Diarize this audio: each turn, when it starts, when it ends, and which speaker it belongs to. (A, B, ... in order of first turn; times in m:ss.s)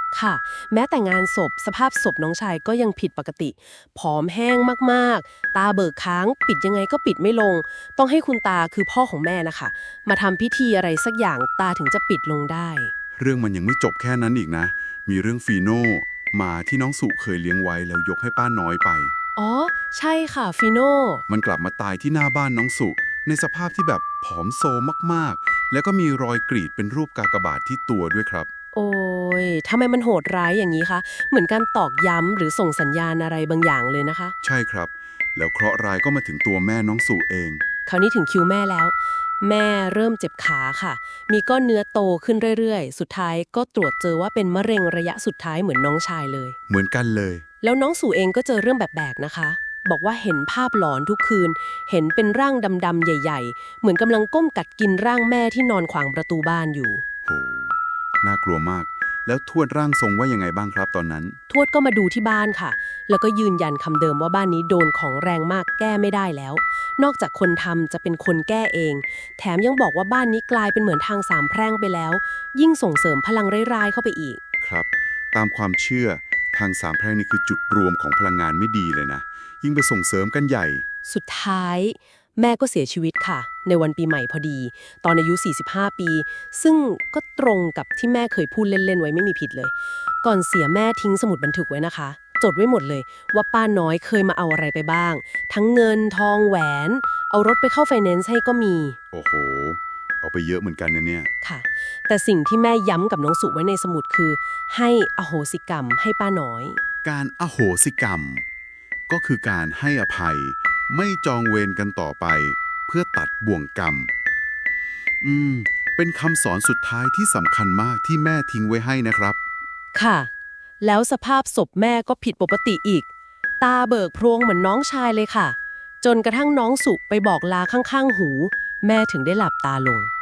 0:00.1-0:12.9 A
0:13.2-0:19.1 B
0:19.4-0:21.2 A
0:21.3-0:28.5 B
0:28.7-0:34.3 A
0:34.4-0:37.6 B
0:37.8-0:46.6 A
0:46.7-0:47.4 B
0:47.6-0:57.0 A
0:57.2-1:01.4 B
1:01.5-1:14.4 A
1:14.6-1:20.8 B
1:21.0-1:39.0 A
1:39.1-1:41.3 B
1:41.4-1:46.8 A
1:47.0-1:48.4 B
1:49.1-1:54.1 B
1:55.2-1:59.4 B
1:59.9-2:00.3 A
2:00.8-2:03.0 A
2:03.6-2:10.1 A